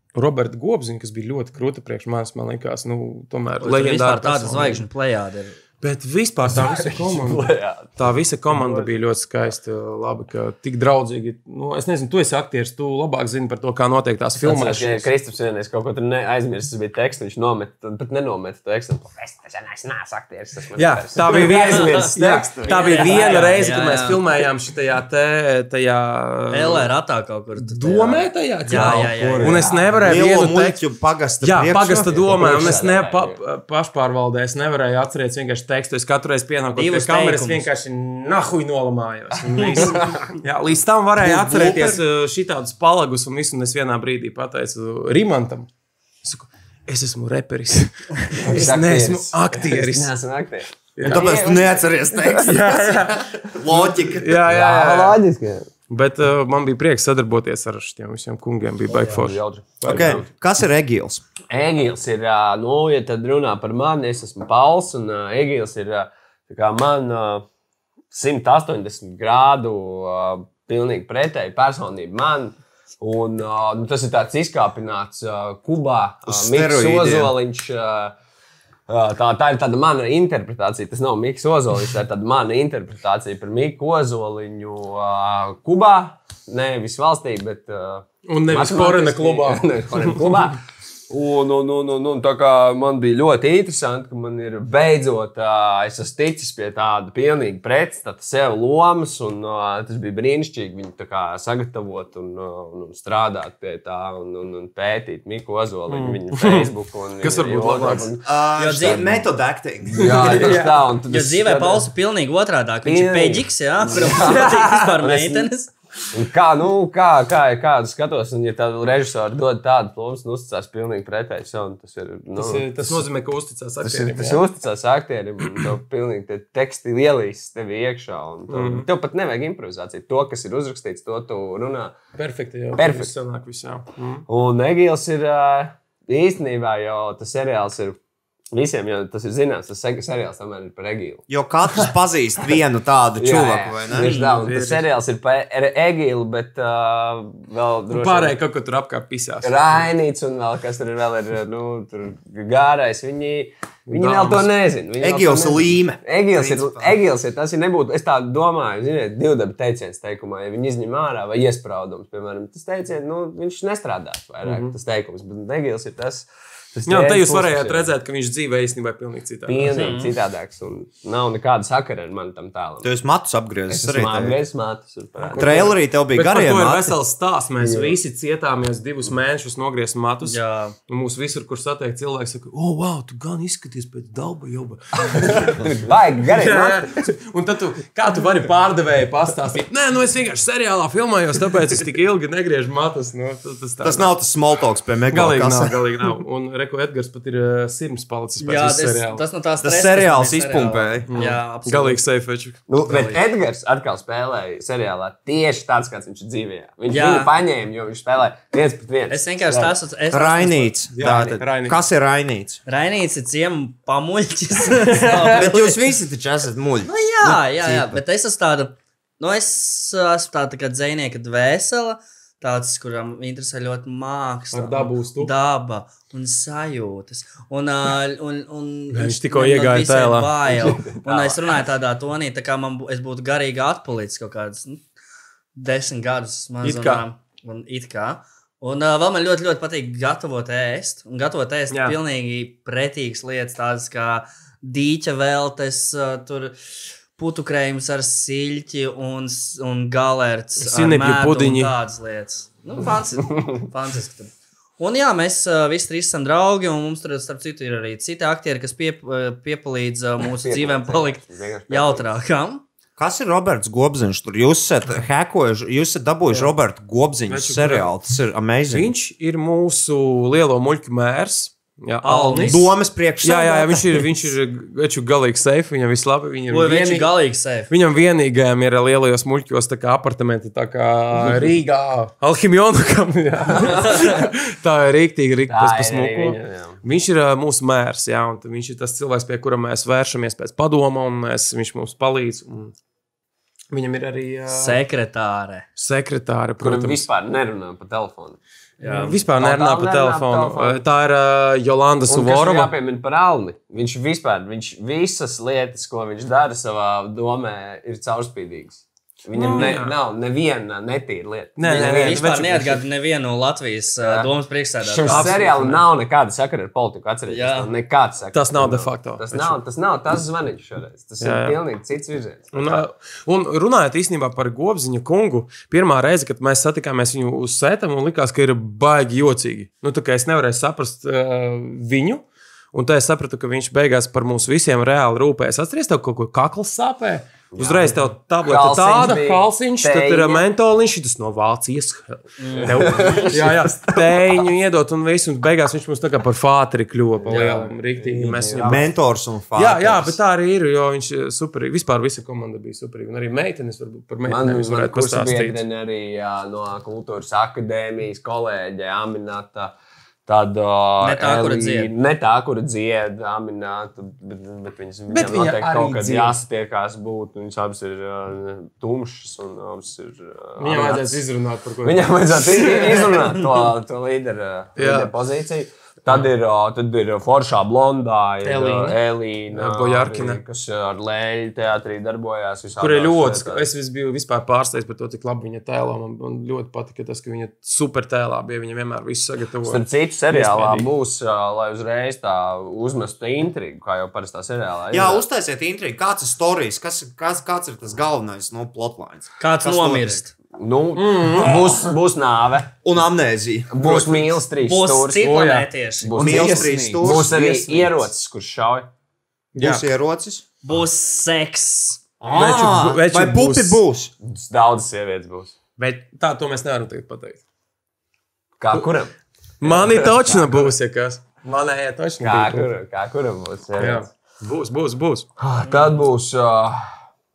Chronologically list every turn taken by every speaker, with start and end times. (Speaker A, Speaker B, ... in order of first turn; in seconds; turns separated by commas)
Speaker A: 0.1-4.8, Speaker B: 3.6-5.6, Speaker A: 5.8-15.1, Speaker C: 6.5-8.0, Speaker C: 8.5-8.9, Speaker C: 14.4-24.1, Speaker A: 20.7-26.9, Speaker B: 21.7-22.1, Speaker B: 22.7-24.2, Speaker B: 26.5-29.6, Speaker A: 27.6-30.8, Speaker C: 28.7-30.2, Speaker D: 30.0-32.4, Speaker A: 31.4-45.7, Speaker C: 32.2-33.4, Speaker B: 36.7-37.7, Speaker C: 39.8-40.1, Speaker D: 41.2-42.0, Speaker A: 46.2-50.1, Speaker C: 48.4-52.4, Speaker A: 51.0-51.3, Speaker D: 51.0-54.4, Speaker A: 52.4-55.2, Speaker C: 54.4-55.7, Speaker A: 55.9-60.2, Speaker C: 58.9-60.2, Speaker D: 59.8-61.2, Speaker C: 61.5-67.5, Speaker C: 68.1-78.1, Speaker D: 76.2-77.3, Speaker C: 78.9-108.3, Speaker A: 88.2-90.4, Speaker A: 105.9-108.1, Speaker D: 108.2-110.6, Speaker B: 108.6-109.2, Speaker C: 109.9-111.9, Speaker A: 110.0-110.9, Speaker B: 111.1-115.7, Speaker C: 112.8-115.5, Speaker C: 116.1-123.0, Speaker A: 122.3-124.4, Speaker C: 123.8-132.0, Speaker A: 128.5-128.9, Speaker A: 132.2-134.2, Speaker C: 132.7-133.1, Speaker C: 134.3-138.0, Speaker C: 138.5-141.2, Speaker D: 141.3-144.1, Speaker C: 143.2-148.3, Speaker B: 144.0-144.3, Speaker A: 144.1-144.9, Speaker A: 147.9-149.8, Speaker C: 149.4-167.9, Speaker A: 153.9-154.5, Speaker D: 155.0-157.0, Speaker A: 164.4-164.8, Speaker A: 166.9-169.9, Speaker C: 169.5-172.9, Speaker B: 169.7-170.1, Speaker D: 172.8-174.4, Speaker C: 173.7-175.7, Speaker A: 175.2-185.7, Speaker D: 175.3-176.9, Speaker C: 177.6-178.0, Speaker B: 180.2-180.7, Speaker C: 185.0-187.1, Speaker A: 186.2-194.1, Speaker D: 193.8-195.8, Speaker A: 195.1-199.2, Speaker B: 198.4-202.0, Speaker D: 199.6-201.1, Speaker A: 201.1-202.6, Speaker C: 202.7-209.7, Speaker B: 202.8-203.2, Speaker B: 206.9-207.3, Speaker B: 209.1-210.7, Speaker D: 210.1-212.6, Speaker A: 210.9-211.8, Speaker C: 211.1-211.3, Speaker B: 212.7-215.8, Speaker A: 214.8-215.4, Speaker D: 215.2-218.0, Speaker B: 216.8-234.8, Speaker A: 224.5-225.3, Speaker A: 228.9-230.3, Speaker C: 230.4-231.6, Speaker B: 235.6-246.6, Speaker A: 236.6-237.0, Speaker A: 241.7-242.0, Speaker B: 247.2-262.6, Speaker A: 250.6-251.7, Speaker C: 260.2-262.1, Speaker D: 263.0-268.9, Speaker A: 267.3-267.9, Speaker A: 268.7-272.6, Speaker B: 272.0-272.6, Speaker D: 272.4-274.2, Speaker A: 273.2-277.1, Speaker B: 276.5-277.7, Speaker A: 277.7-292.7, Speaker C: 283.5-284.2, Speaker C: 285.5-286.8, Speaker A: 293.7-294.8, Speaker B: 294.5-295.6, Speaker A: 295.8-297.1, Speaker C: 296.6-298.4, Speaker B: 298.8-299.2, Speaker A: 298.8-302.7, Speaker C: 299.4-300.8, Speaker C: 302.1-312.2, Speaker A: 309.3-310.0, Speaker A: 311.6-312.8, Speaker B: 311.6-315.4, Speaker C: 314.0-314.3, Speaker C: 314.8-322.8, Speaker A: 315.1-315.9, Speaker B: 317.3-317.7, Speaker A: 318.3-319.6, Speaker A: 321.2-321.6, Speaker A: 322.5-348.8, Speaker C: 337.5-340.4, Speaker B: 342.4-342.9, Speaker C: 342.6-344.0, Speaker C: 347.2-348.8, Speaker D: 348.6-350.2, Speaker A: 349.5-355.6, Speaker C: 354.2-359.7, Speaker C: 360.2-371.2, Speaker B: 361.0-361.9, Speaker A: 365.1-366.4, Speaker A: 370.6-373.4, Speaker C: 371.8-383.6, Speaker A: 374.8-375.1, Speaker A: 378.4-379.0, Speaker A: 379.5-380.4, Speaker A: 382.8-390.9, Speaker C: 389.6-395.2, Speaker D: 394.9-400.2, Speaker B: 399.4-400.3, Speaker C: 400.5-402.7, Speaker A: 400.9-401.8, Speaker D: 402.8-404.3, Speaker C: 403.7-405.4, Speaker B: 404.6-406.3, Speaker A: 405.2-408.0, Speaker C: 406.0-408.9, Speaker D: 406.1-407.4, Speaker A: 409.5-409.8, Speaker D: 409.6-410.4, Speaker B: 410.6-412.0, Speaker D: 412.2-414.1, Speaker A: 412.3-413.8, Speaker C: 414.2-415.5, Speaker A: 415.8-417.4, Speaker C: 418.6-420.7, Speaker A: 419.6-422.7, Speaker C: 422.2-424.1, Speaker A: 423.8-425.3, Speaker C: 425.4-426.8